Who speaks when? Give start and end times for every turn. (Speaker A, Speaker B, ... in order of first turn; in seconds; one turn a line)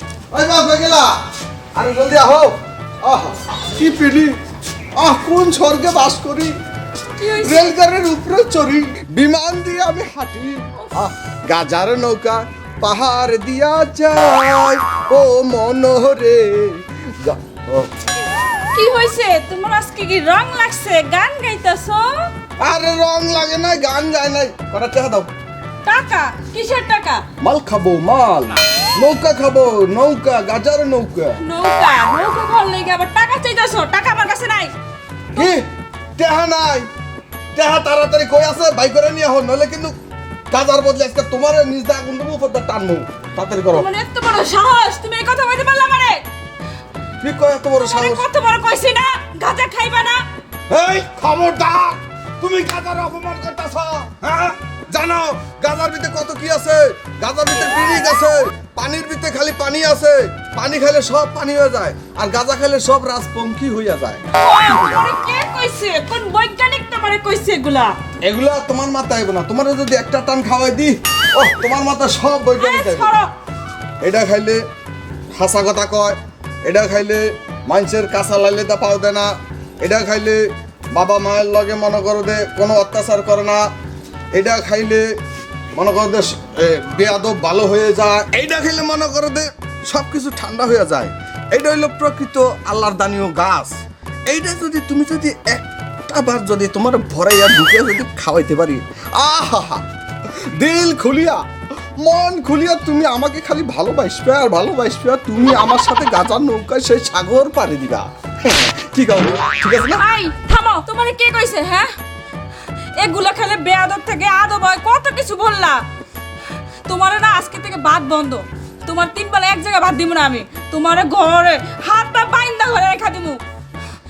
Speaker A: 0.3-1.2
Speaker A: 1.8-4.4
Speaker A: 5.0-6.5
Speaker B: 7.2-7.8
Speaker A: 7.3-17.9
Speaker B: 10.8-11.0
Speaker B: 18.7-22.3
Speaker A: 22.6-25.3
Speaker B: 25.9-27.2
Speaker A: 27.4-31.4
Speaker B: 31.4-34.7
Speaker A: 35.4-35.7
Speaker A: 36.2-36.9
Speaker A: 37.5-40.0
Speaker A: 40.5-43.9
Speaker B: 43.7-46.2
Speaker A: 47.2-48.2
Speaker B: 47.8-50.2
Speaker A: 50.7-64.3
Speaker B: 64.4-68.0
Speaker A: 68.2-73.1
Speaker B: 72.6-73.3
Speaker A: 74.0-74.6
Speaker A: 75.4-80.4
Speaker A: 80.9-83.6
Speaker A: 84.3-85.0
Speaker A: 85.8-93.8
Speaker A: 94.3-99.8
Speaker A: 100.6-101.4
Speaker A: 102.0-110.0
Speaker B: 110.0-111.9
Speaker B: 113.0-115.8
Speaker B: 116.9-123.4